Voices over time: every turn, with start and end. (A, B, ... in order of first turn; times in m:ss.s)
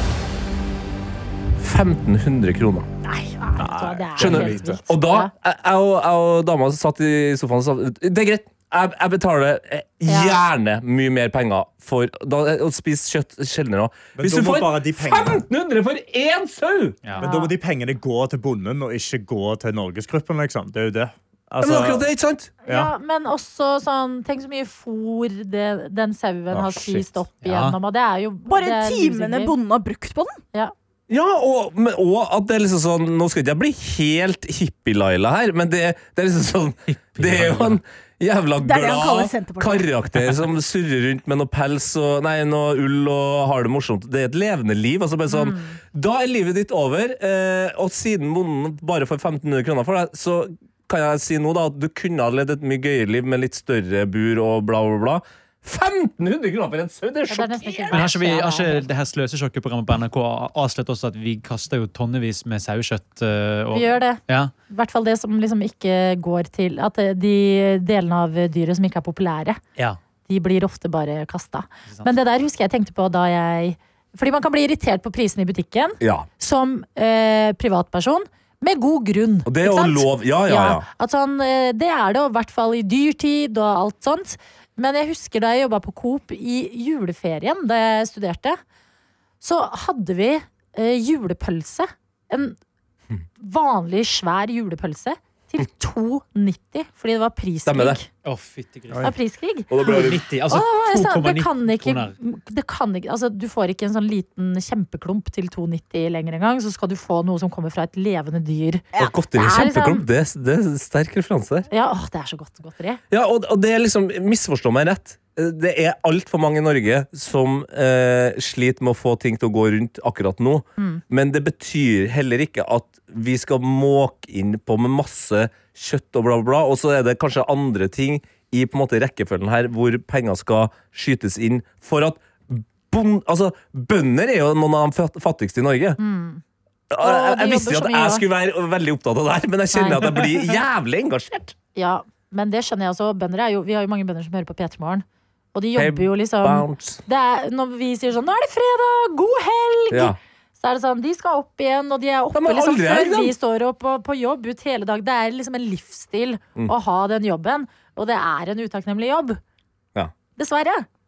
0:01.6-0:02.9 A
0:03.0-0:05.3 B
0:03.6-0:04.8 C
0:04.2-0:17.0 A
0:10.1-0:10.4 B
0:14.2-0:15.4 C
0:17.2-0:17.5 B
0:17.2-0:22.1 C
0:21.6-0:22.5 A
0:22.6-0:29.6 B
0:22.6-0:22.9 C
0:26.5-0:27.2 C
0:27.4-0:27.8 D
0:28.4-0:30.4 E
0:31.1-0:58.1 A
0:36.9-0:37.8 D
0:38.6-0:39.9 E
0:45.3-0:45.8 B
0:57.3-0:58.9 B
0:57.9-1:04.5 D
1:03.7-1:09.6 B
1:10.3-1:28.6 B
1:16.0-1:16.3 A
1:19.4-1:20.8 A
1:29.4-1:32.6 B
1:33.4-1:38.1 B
1:37.6-1:38.0 A
1:38.2-1:39.1 D
1:39.0-1:50.0 B
1:39.7-1:40.2 A
1:39.8-1:42.1 D
1:49.0-1:51.7 A
1:51.7-1:53.0 B
1:53.1-2:16.0 A
2:16.0-2:16.4 B
2:16.9-2:21.6 A
2:17.0-2:18.2 B
2:19.7-2:20.6 B
2:21.7-2:39.4 B
2:25.8-2:27.0 A
2:29.9-2:30.2 A
2:32.3-2:33.3 A
2:40.4-2:40.8 B